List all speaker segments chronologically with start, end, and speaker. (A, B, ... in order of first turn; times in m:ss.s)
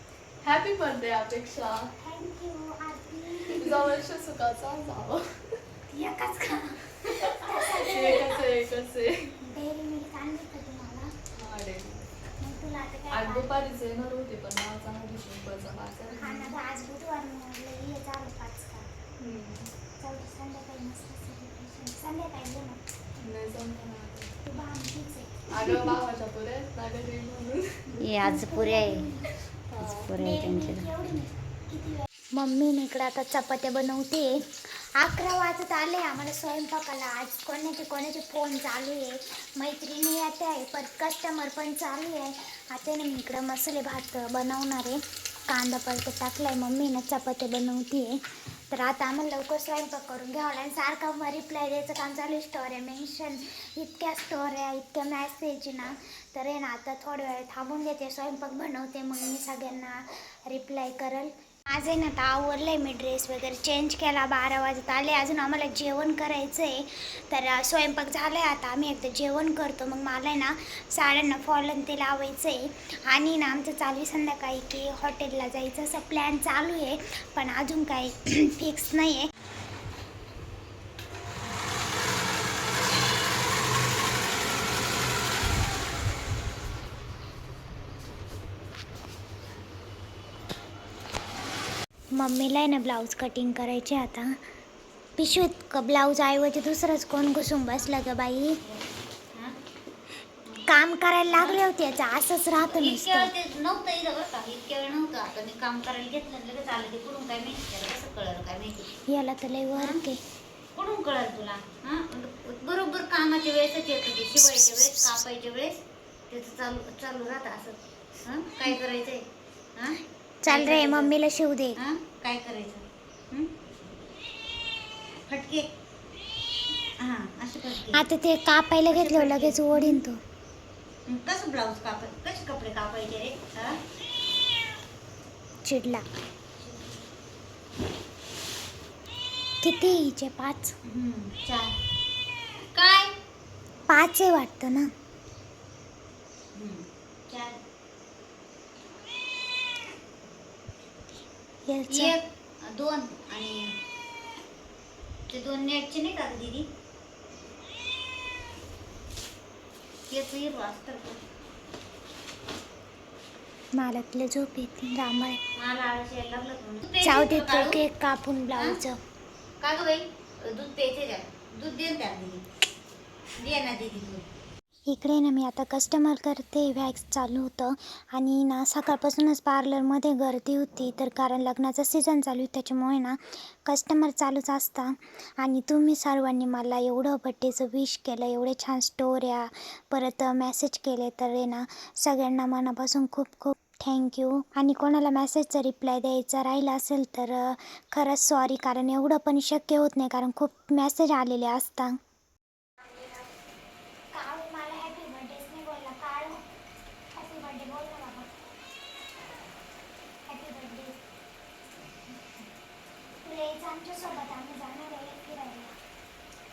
0:00.4-0:01.9 A
0:02.0-0:03.9 B
0:03.5-0:05.6 A
0:05.9-0:08.4 B
0:07.3-0:09.4 A
0:09.4-0:11.1 B
0:11.4-0:12.1 A
0:12.4-0:13.5 B
0:13.1-0:16.6 A
0:16.1-0:18.9 B
0:19.2-0:19.7 A
0:20.0-0:22.8 B
0:23.2-0:24.3 A
0:24.4-0:25.9 B
0:25.5-0:27.8 A
0:28.0-0:29.1 C
0:28.2-0:29.3 B
0:29.7-0:30.1 A
0:29.8-0:30.9 C
0:30.2-1:19.3 B
1:32.1-1:34.4 B
1:35.2-1:38.6 B
1:40.7-1:43.3 B
1:41.3-1:41.6 C
1:42.6-1:48.9 C
1:49.1-1:50.2 B
1:49.7-1:50.0 C
1:50.8-1:59.2 C
1:59.8-2:01.1 C
2:00.4-2:01.8 B
2:01.8-2:03.5 C
2:05.3-2:05.7 C
2:07.0-2:08.0 C
2:07.9-2:10.2 B
2:08.9-2:10.0 C
2:11.1-2:13.8 C
2:15.6-2:16.0 B
2:16.6-2:17.0 C
2:19.6-2:20.8 B
2:20.9-2:21.8 C
2:22.7-2:23.1 C
2:23.9-2:24.9 B
2:26.6-2:27.6 C
2:31.7-2:32.2 B
2:31.9-2:33.7 C
2:35.3-2:36.7 C
2:40.1-2:41.2 C
2:43.8-2:45.4 B
2:45.6-2:47.8 C
2:47.0-2:49.0 B
2:49.6-2:52.4 C
2:53.4-2:54.2 C
2:54.9-3:22.0 B
3:22.9-3:23.2 B
3:24.1-3:26.4 B
3:27.1-3:28.3 B
3:30.3-3:31.0 B
3:33.2-3:35.7 B